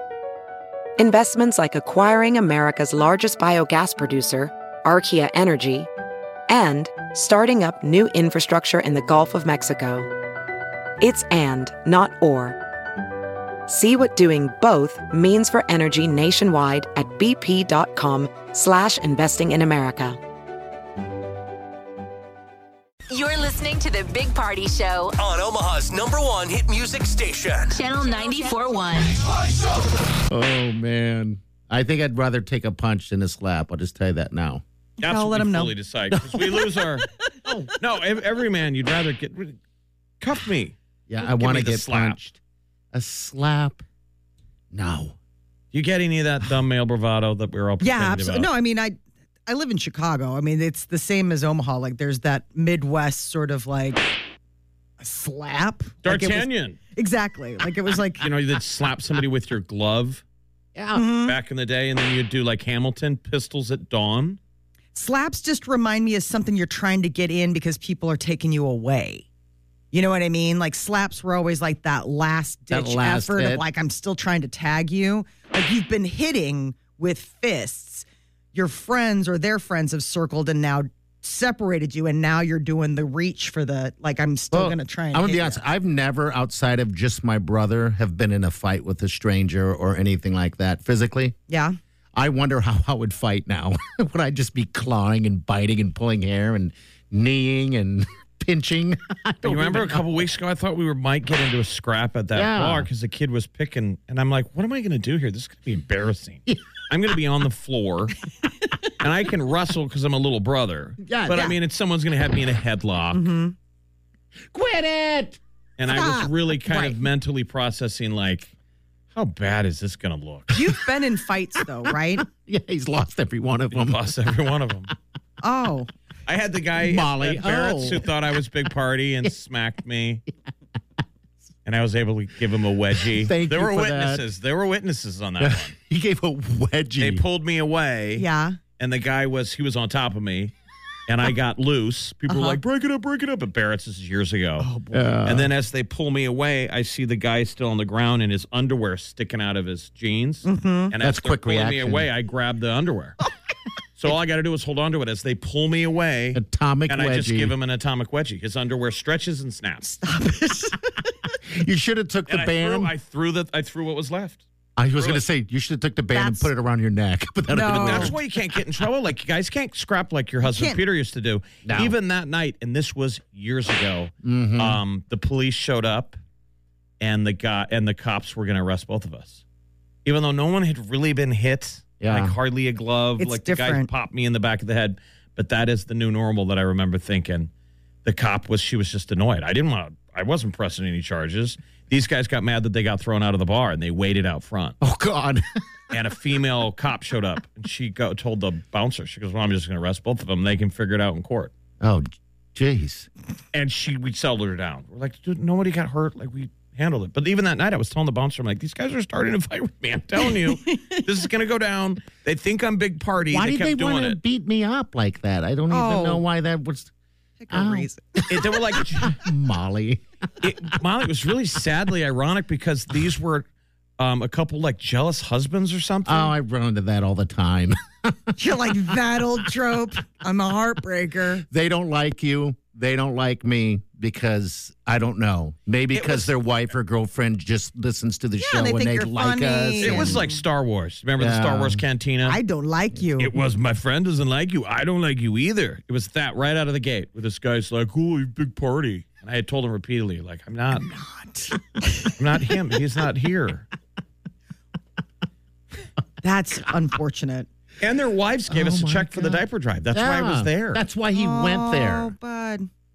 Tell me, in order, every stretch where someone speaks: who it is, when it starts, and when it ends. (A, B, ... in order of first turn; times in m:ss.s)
0:01.0-0:05.9 A
0:06.5-0:10.1 A
0:11.0-0:12.6 A
0:13.7-0:20.2 A
0:23.1-0:25.2 B
0:25.2-0:27.7 C
0:27.7-0:29.2 B
0:30.3-0:34.6 D
0:35.0-0:37.1 E
0:35.0-0:35.7 F
0:36.1-0:36.7 D
0:37.4-0:37.7 D
0:37.8-0:39.6 E
0:40.2-0:42.2 E
0:41.1-0:42.4 D
0:42.9-0:43.8 D
0:44.7-0:45.2 D
0:45.7-0:48.5 E
0:47.8-0:49.0 F
0:49.5-0:54.1 F
0:55.0-0:58.3 F
0:56.0-0:56.8 E
0:58.2-1:00.2 E
1:00.7-1:01.1 D
1:00.9-1:01.4 F
1:01.2-1:04.4 E
1:05.0-1:09.2 F
1:09.9-1:25.6 F
1:12.7-1:13.6 D
1:24.5-1:31.4 D
1:31.5-1:31.8 F
1:32.2-1:40.2 D
1:39.4-1:48.2 E
1:42.3-1:42.9 D
1:49.0-1:53.3 E
1:51.0-1:51.4 D
1:53.1-1:53.6 F
1:54.5-1:55.4 D
1:55.8-1:58.5 E
1:55.9-1:57.0 F
1:59.2-2:00.6 E
2:00.5-2:02.2 F
2:02.1-2:04.0 D
2:03.7-2:04.9 E
2:05.4-2:05.9 F
2:06.3-2:10.2 E
2:06.8-2:07.9 D
2:07.4-2:08.0 F
2:11.7-2:15.7 E
2:13.1-2:14.2 D
2:15.4-2:17.2 D
2:17.0-2:20.5 E
2:18.2-2:18.6 F
2:21.1-2:24.7 E
2:22.3-2:22.6 F
2:24.6-2:25.2 F
2:24.9-2:25.5 D
2:25.2-2:33.2 E
2:30.4-2:30.9 F
2:31.0-2:32.1 D
2:34.0-2:39.9 E
2:36.3-2:37.6 D
2:39.8-2:41.0 F
2:41.5-2:42.9 D
2:42.3-2:45.2 E
2:44.8-2:48.2 D
2:46.1-2:46.5 F
2:47.5-2:48.2 F
2:47.6-2:56.2 E
2:50.4-2:50.8 F
2:51.6-2:51.9 D
2:54.2-2:54.8 D
2:57.0-2:59.4 E
3:00.0-3:07.5 E
3:02.0-3:02.4 D
3:03.2-3:03.9 F
3:08.0-3:14.8 E
3:14.8-3:15.4 D
3:15.9-3:21.5 E
3:21.8-3:23.1 D
3:23.5-3:34.2 E
3:30.3-3:31.0 F
3:33.3-3:36.9 D
3:35.7-3:36.2 F
3:37.4-3:38.8 F
3:37.5-3:40.0 D
3:38.3-3:39.3 E
3:40.4-3:43.5 E
3:44.0-3:46.3 E
3:46.0-3:48.3 D
3:48.4-3:51.4 F
3:51.5-4:00.2 D
3:55.9-3:56.4 E
3:58.4-4:00.4 F
3:59.8-4:02.4 E
4:01.2-4:01.8 D
4:02.2-4:03.3 F
4:03.2-4:10.9 E
4:11.0-4:12.0 F
4:12.1-4:13.7 E
4:16.2-4:17.5 F
4:17.8-4:20.8 E
4:18.5-4:22.2 D
4:21.1-4:22.7 F